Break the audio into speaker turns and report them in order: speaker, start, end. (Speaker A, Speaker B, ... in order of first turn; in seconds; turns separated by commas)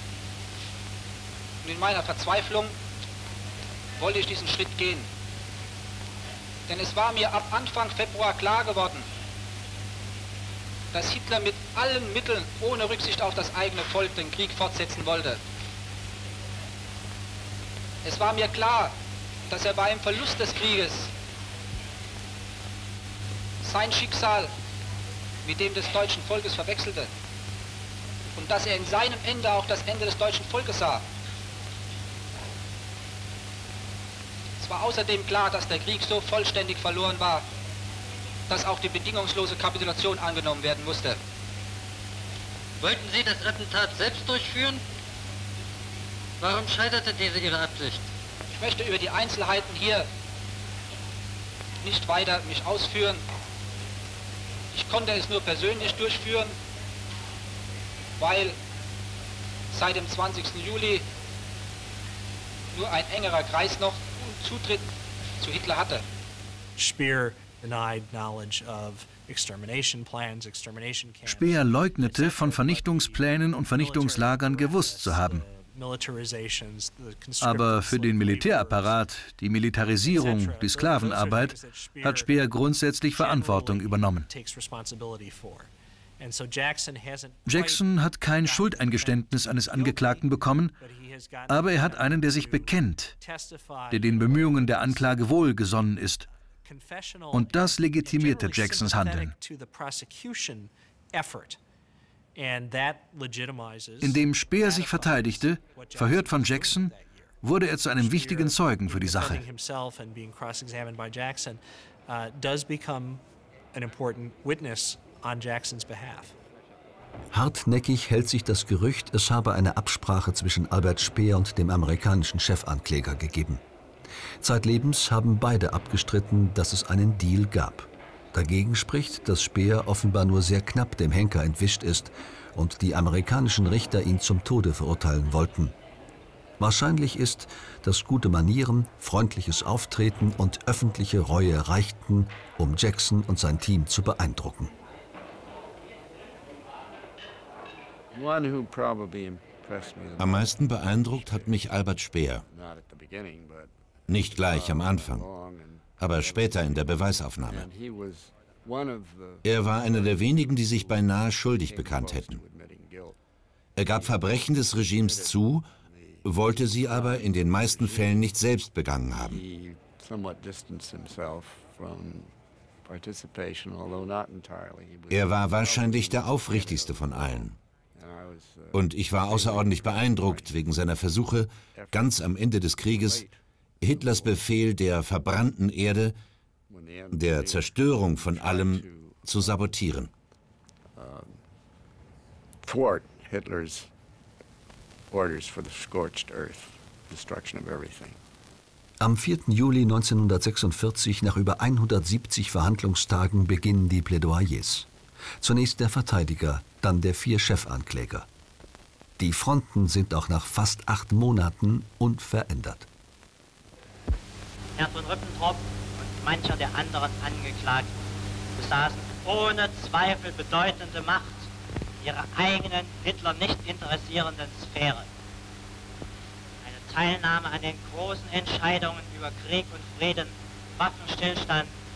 Speaker A: 1.6-2.8, Speaker A: 4.0-5.1, Speaker A: 6.7-9.1, Speaker A: 10.9-15.4, Speaker A: 18.0-18.9, Speaker A: 19.5-21.1, Speaker A: 23.6-24.5, Speaker A: 25.4-27.1, Speaker A: 28.3-31.0, Speaker A: 34.6-37.5, Speaker A: 38.5-41.2, Speaker B: 42.8-44.8, Speaker B: 46.4-48.0, Speaker A: 48.5-50.1, Speaker A: 51.8-53.2, Speaker A: 54.7-56.5, Speaker A: 58.2-58.6, Speaker A: 59.7-61.0, Speaker A: 62.7-64.9, Speaker A: 65.4-66.0, Speaker C: 66.8-79.0, Speaker D: 71.2-75.4, Speaker D: 77.4-84.3, Speaker C: 80.0-82.3, Speaker C: 83.1-95.3, Speaker D: 87.5-90.8, Speaker D: 91.5-93.2, Speaker D: 93.9-96.2, Speaker C: 96.6-101.6, Speaker D: 97.3-99.3, Speaker C: 102.3-107.4, Speaker D: 104.0-109.4, Speaker C: 108.0-113.2, Speaker C: 113.7-116.3, Speaker E: 117.3-123.6, Speaker E: 124.4-135.8, Speaker E: 136.6-144.7, Speaker F: 148.1-150.5, Speaker G: 150.2-152.4, Speaker F: 152.5-153.8, Speaker G: 154.1-155.3, Speaker F: 154.3-156.6, Speaker G: 156.0-157.7, Speaker F: 157.5-160.9, Speaker G: 159.4-162.4, Speaker F: 161.7-163.2, Speaker G: 163.8-165.7, Speaker F: 164.0-164.4, Speaker F: 165.1-168.2, Speaker G: 166.2-169.4, Speaker F: 169.3-177.3, Speaker G: 175.1-177.6, Speaker F: 177.9-178.7, Speaker G: 178.7-183.2, Speaker F: 179.3-180.5, Speaker F: 181.7-182.0, Speaker F: 182.9-183.4, Speaker G: 183.8-186.2, Speaker F: 183.9-184.3, Speaker F: 186.7-187.6, Speaker G: 187.1-190.1, Speaker F: 188.2-189.3, Speaker F: 190.9-191.4, Speaker F: 192.6-193.9, Speaker F: 195.1-198.2, Speaker E: 199.0-204.9, Speaker E: 205.4-208.3, Speaker E: 209.2-212.9, Speaker H: 214.8-217.9, Speaker H: 218.6-221.5, Speaker H: 222.0-225.1, Speaker H: 226.6-231.7